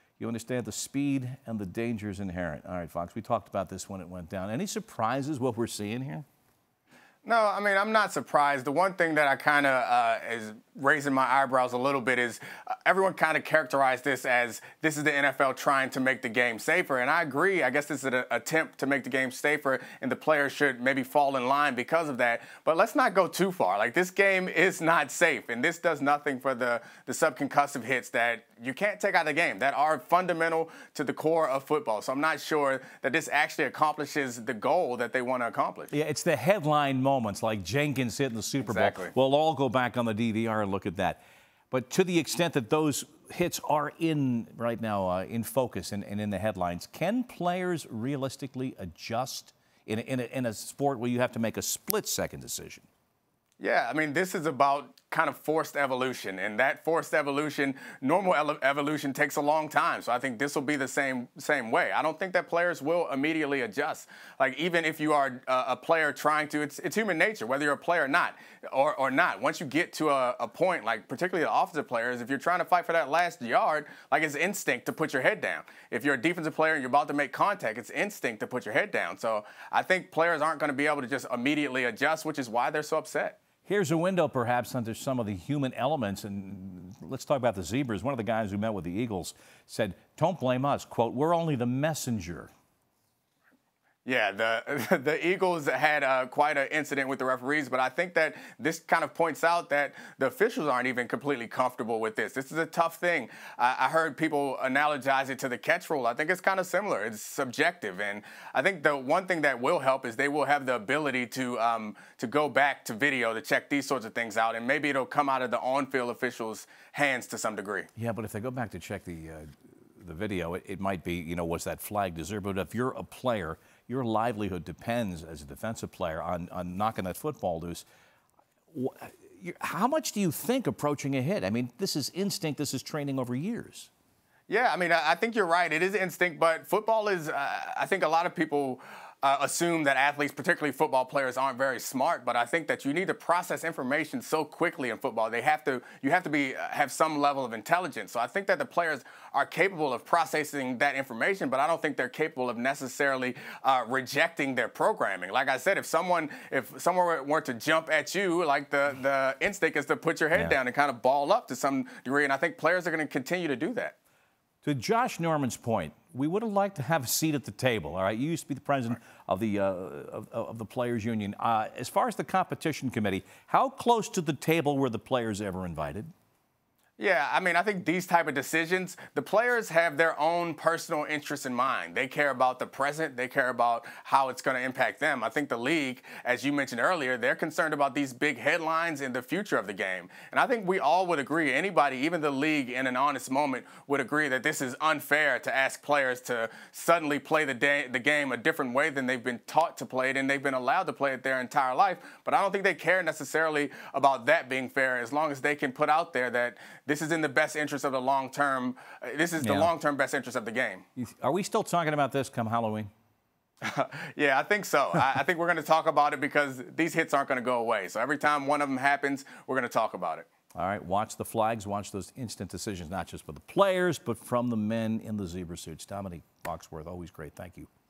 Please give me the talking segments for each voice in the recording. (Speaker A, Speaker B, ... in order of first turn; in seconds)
Speaker A: 0.2-6.2, 35.9-52.9, 83.6-92.5, 118.0-127.9, 128.7-133.9, 164.6-176.1, 209.4-209.7, 211.0-212.9, 220.5-227.7
Speaker B: 7.2-35.9, 38.6-39.1, 53.6-83.4, 94.0-117.9, 134.5-163.9, 177.0-210.8, 213.6-220.3